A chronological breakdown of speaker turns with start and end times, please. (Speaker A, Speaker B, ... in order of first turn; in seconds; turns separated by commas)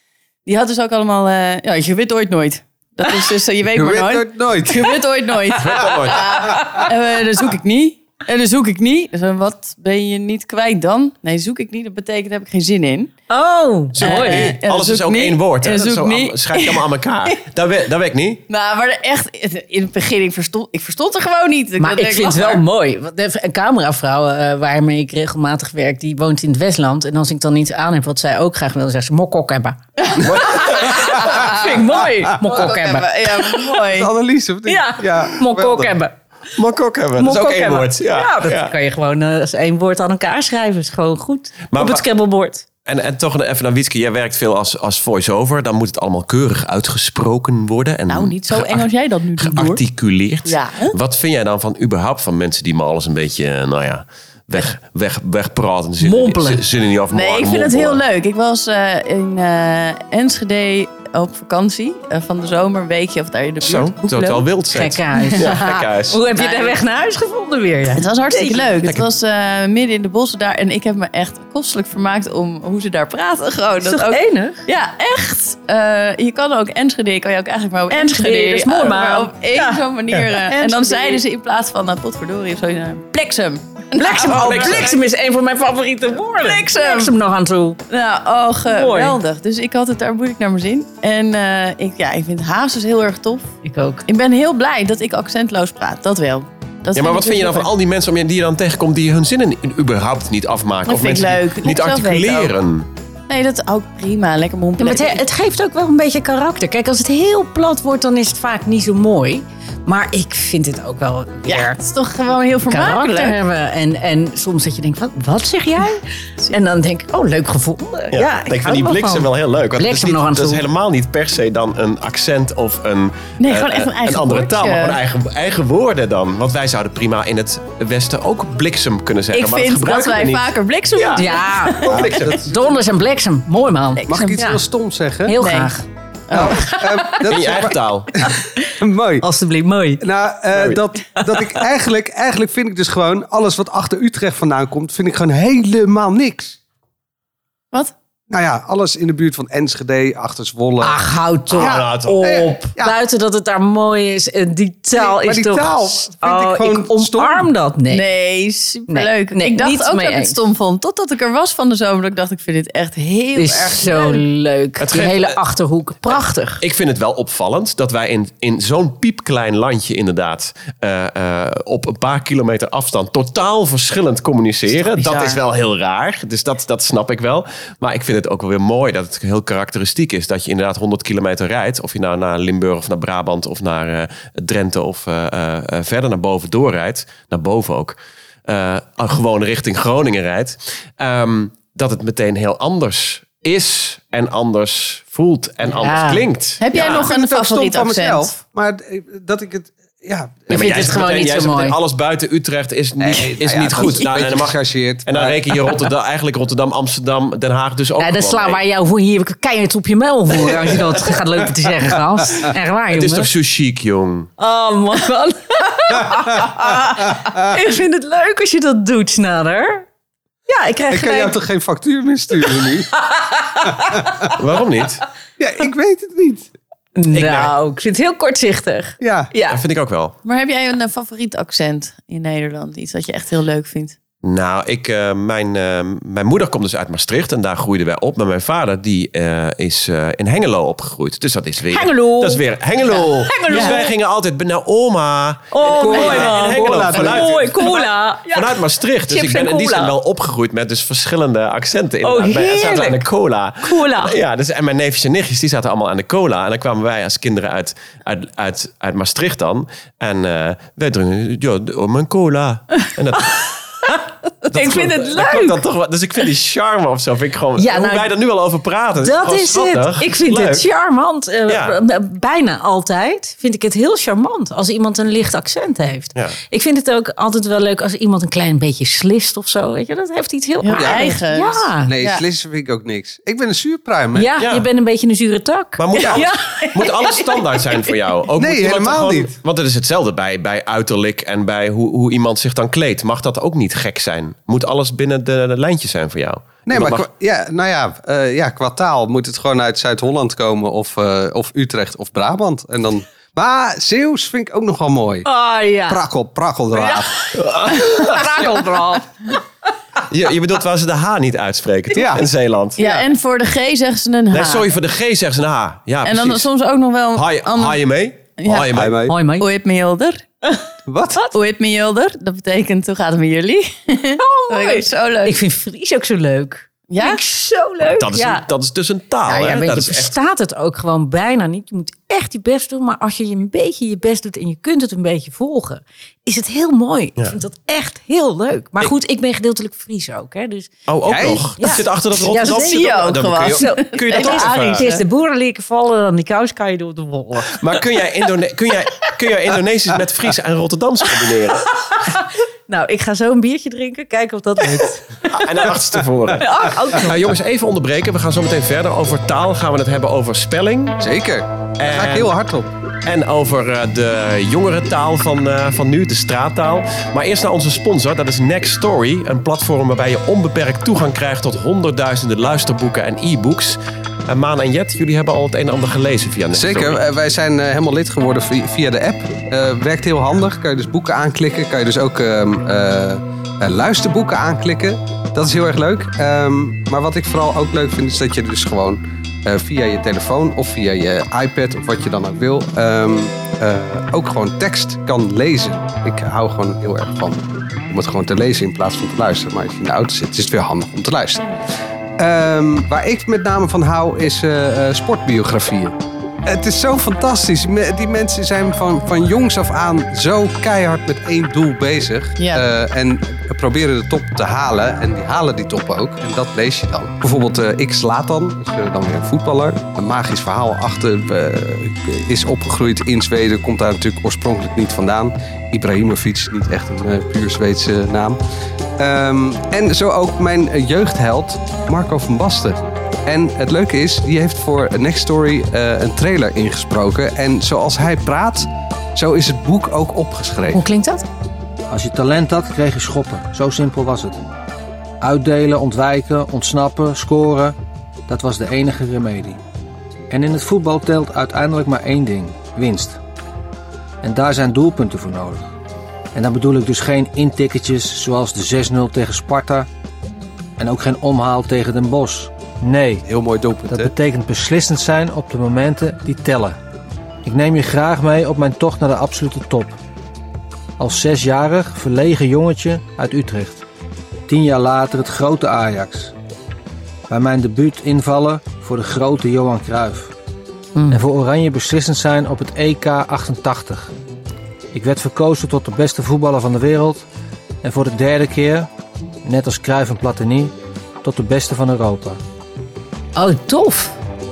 Speaker A: 0.5-13.1, Speaker B: 3.7-5.7, Speaker C: 5.6-6.2, Speaker B: 6.5-6.8, Speaker D: 13.3-14.6, Speaker C: 13.9-18.4, Speaker A: 14.0-17.4, Speaker A: 18.5-22.6, Speaker D: 21.8-33.7, Speaker A: 30.0-30.3, Speaker C: 30.2-31.2, Speaker B: 31.0-31.5, Speaker A: 31.3-31.8, Speaker A: 32.5-34.1, Speaker B: 33.9-35.9, Speaker D: 34.7-36.1, Speaker C: 36.5-38.7, Speaker D: 37.2-42.6, Speaker C: 41.7-42.0, Speaker C: 42.9-58.0, Speaker A: 48.1-49.8, Speaker A: 50.5-51.0, Speaker D: 56.0-56.6, Speaker A: 57.1-64.5, Speaker C: 63.6-66.2, Speaker D: 64.7-68.8, Speaker A: 65.2-65.5, Speaker A: 66.3-66.8, Speaker A: 67.9-84.9, Speaker D: 73.8-74.6, Speaker D: 77.9-81.2, Speaker D: 84.0-87.8, Speaker C: 84.3-84.9, Speaker A: 86.4-87.2, Speaker A: 87.9-93.5, Speaker D: 88.7-89.2, Speaker D: 93.6-94.0, Speaker A: 94.1-97.7, Speaker C: 96.9-102.9, Speaker A: 100.9-102.5, Speaker A: 103.3-105.2, Speaker D: 104.8-111.8, Speaker A: 111.5-113.4, Speaker D: 112.7-120.6, Speaker C: 118.1-132.7, Speaker A: 123.4-125.0, Speaker A: 129.3-131.7, Speaker D: 131.2-134.6, Speaker B: 131.9-132.6, Speaker A: 134.0-134.5, Speaker B: 134.1-135.4, Speaker D: 135.3-135.8, Speaker A: 135.4-135.7, Speaker A: 136.3-137.1, Speaker B: 136.3-139.2, Speaker C: 137.3-138.1, Speaker D: 139.2-140.0, Speaker B: 140.0-146.6, Speaker C: 140.5-140.8, Speaker D: 141.2-141.6, Speaker B: 148.3-151.0, Speaker D: 150.8-158.1, Speaker C: 151.5-152.3, Speaker B: 151.5-152.9, Speaker B: 154.9-157.5, Speaker A: 157.9-164.2, Speaker D: 158.9-160.4, Speaker D: 163.4-166.6, Speaker C: 164.8-165.4, Speaker C: 166.6-197.1, Speaker A: 174.8-175.4, Speaker D: 195.7-196.2, Speaker A: 196.6-198.4, Speaker B: 196.8-200.6, Speaker C: 200.5-208.6, Speaker D: 200.5-201.8, Speaker B: 203.0-205.6, Speaker D: 208.0-213.3, Speaker C: 212.9-214.3, Speaker D: 214.4-219.9, Speaker B: 216.2-216.5, Speaker D: 220.5-221.4, Speaker B: 220.9-222.9, Speaker D: 222.4-224.1, Speaker B: 223.7-224.3, Speaker C: 224.4-225.0, Speaker B: 225.4-226.5, Speaker D: 227.0-229.6, Speaker C: 227.1-227.5, Speaker B: 229.0-229.3, Speaker C: 229.5-230.2, Speaker A: 230.2-234.0, Speaker C: 234.2-247.7, Speaker D: 241.7-243.9, Speaker D: 245.5-250.0, Speaker B: 245.6-247.8, Speaker C: 248.3-263.4, Speaker D: 252.0-253.1, Speaker D: 253.6-254.2, Speaker D: 263.4-265.6, Speaker C: 264.5-270.7, Speaker D: 267.6-268.1, Speaker D: 269.0-281.9, Speaker C: 271.5-271.8, Speaker A: 280.6-282.2, Speaker B: 280.8-281.1, Speaker B: 281.9-284.3, Speaker D: 284.1-287.1, Speaker C: 284.4-284.7, Speaker C: 285.8-297.1, Speaker B: 288.4-289.3, Speaker B: 296.7-305.3, Speaker D: 305.2-306.1, Speaker B: 305.9-307.2, Speaker D: 306.7-309.1, Speaker C: 307.3-308.3, Speaker C: 310.1-312.8, Speaker B: 311.9-312.3, Speaker A: 312.8-314.7, Speaker B: 312.8-313.1, Speaker C: 314.3-316.5, Speaker A: 316.0-317.8, Speaker C: 317.1-319.0, Speaker A: 318.4-318.7, Speaker B: 318.7-319.2, Speaker D: 319.1-319.5, Speaker A: 319.4-320.2, Speaker B: 320.9-321.2, Speaker A: 321.3-325.4, Speaker D: 324.2-328.5, Speaker A: 326.9-327.2, Speaker C: 327.9-330.1, Speaker D: 329.3-347.7, Speaker C: 340.9-344.9, Speaker B: 341.1-341.5, Speaker A: 342.3-345.0, Speaker C: 347.5-351.7, Speaker D: 351.3-355.7, Speaker B: 354.6-354.9, Speaker C: 355.3-361.0, Speaker D: 356.4-357.2, Speaker B: 361.0-362.7, Speaker C: 361.8-362.3, Speaker C: 363.0-377.0, Speaker B: 376.5-401.5, Speaker B: 402.2-428.4, Speaker A: 412.4-412.6, Speaker B: 429.0-440.8, Speaker D: 440.7-441.2, Speaker E: 441.9-444.4, Speaker E: 445.2-447.8, Speaker E: 448.3-449.6, Speaker E: 450.3-453.2, Speaker E: 454.2-455.7, Speaker E: 456.3-459.9, Speaker E: 460.8-463.3, Speaker B: 463.3-464.1, Speaker E: 463.9-466.8, Speaker E: 467.4-470.0, Speaker E: 471.0-473.8, Speaker E: 474.5-476.3, Speaker E: 477.3-480.3, Speaker D: 480.9-481.2, Speaker E: 481.1-484.1, Speaker E: 484.9-487.3, Speaker E: 487.8-488.9, Speaker E: 489.4-492.4, Speaker D: 493.4-494.1